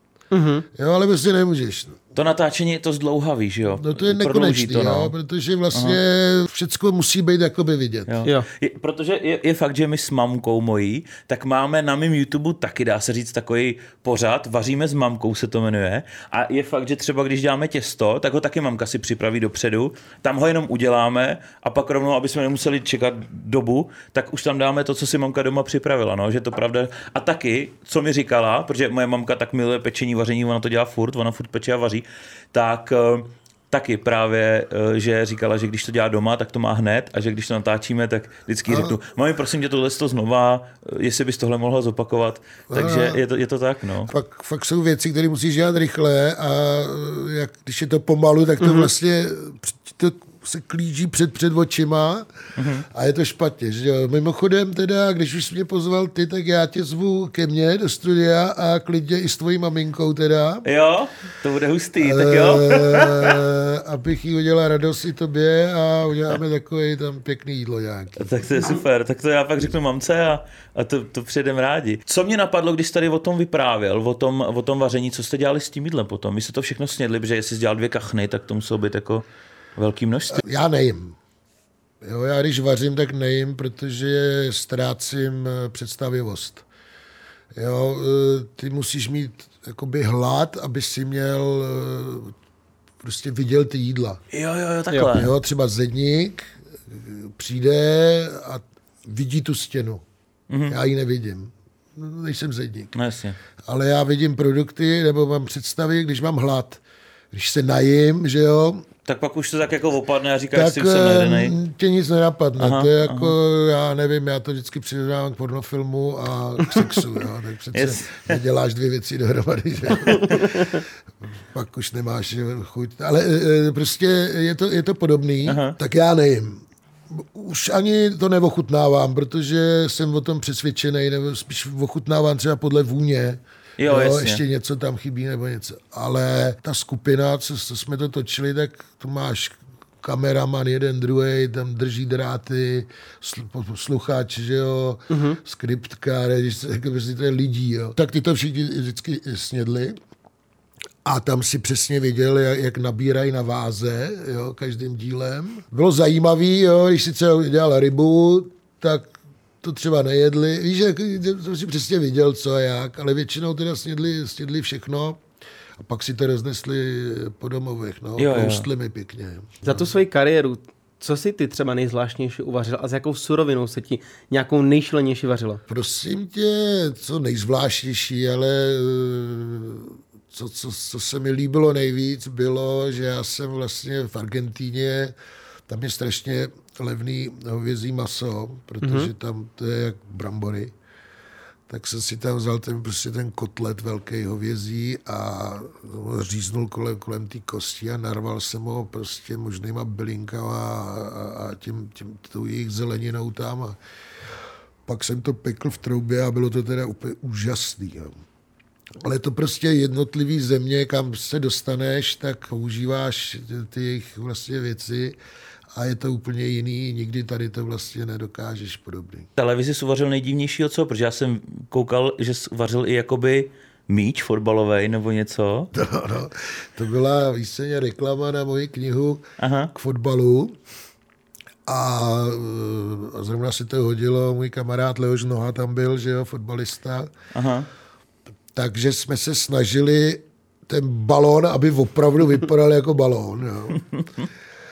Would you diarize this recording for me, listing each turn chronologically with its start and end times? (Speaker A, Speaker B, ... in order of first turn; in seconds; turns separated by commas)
Speaker A: 0.3-0.7, Speaker B: 0.7-2.0, Speaker C: 2.1-5.1, Speaker B: 3.7-8.2, Speaker C: 5.7-6.0, Speaker C: 8.1-44.1, Speaker B: 38.7-39.0, Speaker B: 42.7-43.2, Speaker B: 44.1-52.3, Speaker A: 48.6-48.9, Speaker C: 52.5-52.9, Speaker B: 52.9-60.6, Speaker C: 60.6-63.4, Speaker B: 62.0-68.3, Speaker C: 68.2-79.2, Speaker C: 79.8-80.4, Speaker B: 80.3-81.2, Speaker B: 82.0-86.6, Speaker B: 87.5-92.3, Speaker B: 93.0-94.2, Speaker C: 94.3-95.3, Speaker B: 95.1-100.0, Speaker C: 100.5-100.8, Speaker B: 100.7-102.9, Speaker C: 102.9-103.3, Speaker B: 103.7-106.8, Speaker B: 107.3-108.9, Speaker C: 109.0-111.5, Speaker B: 110.5-120.8, Speaker C: 112.6-113.3, Speaker C: 117.7-118.4, Speaker C: 120.1-120.4, Speaker B: 121.5-150.0, Speaker C: 125.5-125.8, Speaker C: 133.8-134.4, Speaker A: 145.1-145.4, Speaker B: 151.0-165.2, Speaker B: 165.8-169.8, Speaker C: 168.2-168.7, Speaker A: 169.6-175.6, Speaker B: 175.7-185.1, Speaker B: 185.7-190.7, Speaker A: 188.8-189.1, Speaker B: 191.7-203.8, Speaker B: 204.8-208.1, Speaker B: 209.0-215.2, Speaker B: 215.7-219.3, Speaker C: 219.4-225.7, Speaker B: 225.7-229.2, Speaker C: 229.4-229.7, Speaker B: 229.7-230.6, Speaker B: 231.7-237.1, Speaker C: 237.3-237.7, Speaker B: 238.5-243.8